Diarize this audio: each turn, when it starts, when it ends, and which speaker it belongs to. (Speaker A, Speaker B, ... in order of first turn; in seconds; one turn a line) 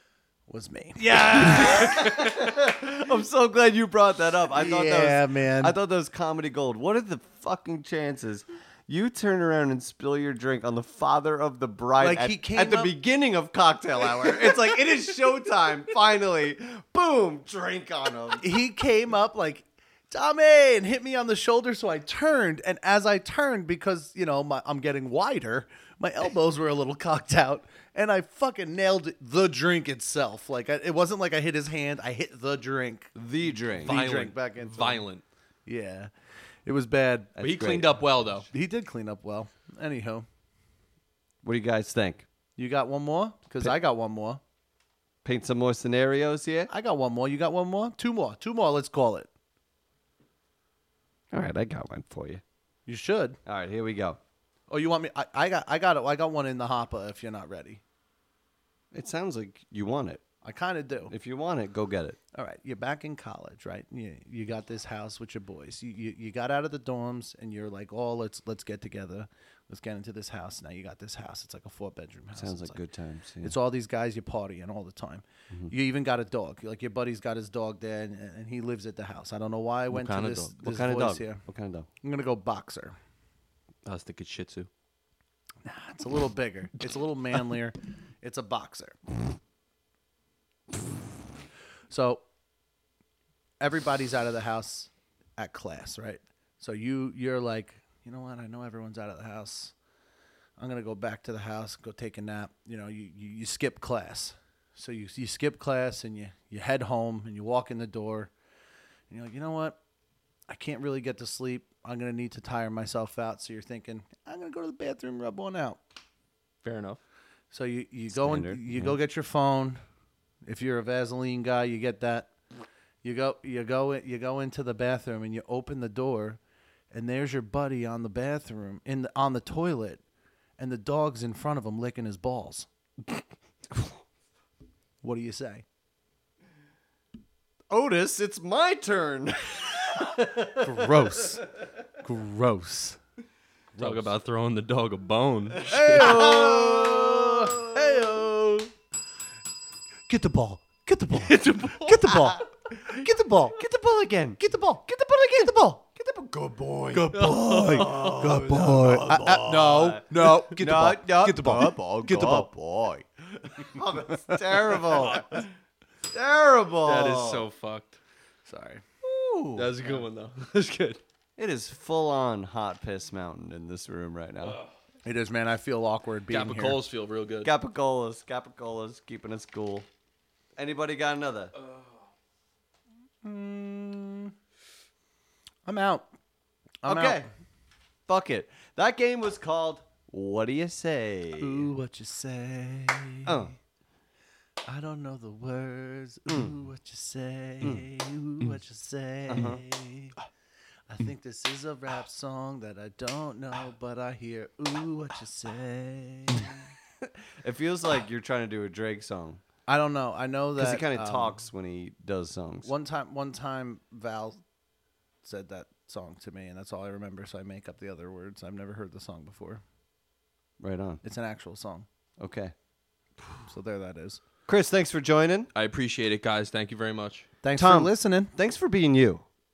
Speaker A: 0.5-2.1
Speaker B: 1.1-18.4
Speaker A: 4.5-5.7
Speaker A: 12.0-12.9
Speaker A: 18.4-33.1
Speaker B: 33.1-34.0
Speaker A: 33.7-35.0
Speaker C: 33.8-35.2
Speaker A: 35.6-36.1
Speaker A: 36.6-37.3
Speaker B: 37.3-38.0
Speaker C: 37.4-38.5
Speaker A: 38.5-40.2
Speaker B: 41.4-42.3
Speaker A: 42.6-44.4
Speaker B: 45.2-46.7
Speaker A: 46.7-49.3
Speaker B: 51.3-52.4
Speaker A: 52.9-53.4
Speaker B: 53.5-54.2
Speaker A: 54.7-57.8
Speaker B: 58.9-60.2
Speaker A: 60.4-61.1
Speaker B: 61.1-62.2
Speaker A: 62.3-72.8
Speaker B: 72.3-73.5
Speaker A: 73.4-81.4
Speaker C: 79.9-80.5
Speaker B: 80.6-81.9
Speaker A: 82.0-82.9
Speaker C: 83.8-84.7
Speaker A: 85.6-89.0
Speaker A: 91.9-92.2
Speaker A: 93.6-99.7
Speaker A: 100.6-108.3
Speaker A: 109.1-109.8
Speaker A: 110.5-115.8
Speaker C: 116.6-117.0
Speaker A: 117.5-119.8
Speaker B: 118.1-119.0
Speaker A: 120.5-122.3
Speaker A: 123.0-126.4
Speaker A: 126.9-130.0
Speaker A: 130.6-132.7
Speaker A: 135.0-135.6
Speaker B: 137.7-140.6
Speaker A: 140.6-141.4
Speaker A: 142.0-143.0
Speaker A: 143.7-144.1
Speaker C: 143.8-146.3
Speaker A: 145.7-148.7
Speaker B: 145.8-148.1
Speaker A: 150.1-153.6
Speaker C: 151.1-152.3
Speaker B: 152.3-154.4
Speaker A: 154.4-155.8
Speaker B: 155.4-165.4
Speaker A: 156.9-162.5
Speaker C: 157.1-159.4
Speaker A: 163.7-165.2
Speaker C: 165.1-165.4
Speaker B: 166.1-167.4
Speaker C: 166.8-168.0
Speaker A: 168.4-168.8
Speaker B: 169.0-170.0
Speaker C: 169.6-171.0
Speaker B: 171.4-174.6
Speaker C: 174.4-174.7
Speaker A: 175.0-176.8
Speaker C: 176.3-177.5
Speaker B: 177.4-179.9
Speaker B: 180.6-181.5
Speaker C: 181.5-182.0
Speaker A: 183.2-184.3
Speaker A: 185.7-186.1
Speaker A: 186.8-187.2
Speaker B: 186.8-187.3
Speaker B: 188.1-191.7
Speaker A: 191.4-193.5
Speaker B: 193.2-193.5
Speaker A: 194.7-200.2
Speaker B: 196.3-196.5
Speaker B: 199.3-199.6
Speaker A: 200.9-206.7
Speaker B: 207.4-209.4
Speaker A: 209.7-211.4
Speaker B: 210.6-212.7
Speaker A: 212.6-214.4
Speaker A: 215.2-219.6
Speaker B: 220.6-221.0
Speaker A: 221.0-221.8
Speaker B: 222.2-222.5
Speaker A: 223.4-224.2
Speaker B: 224.5-225.5
Speaker C: 225.5-227.3
Speaker A: 227.4-228.3
Speaker B: 227.5-229.2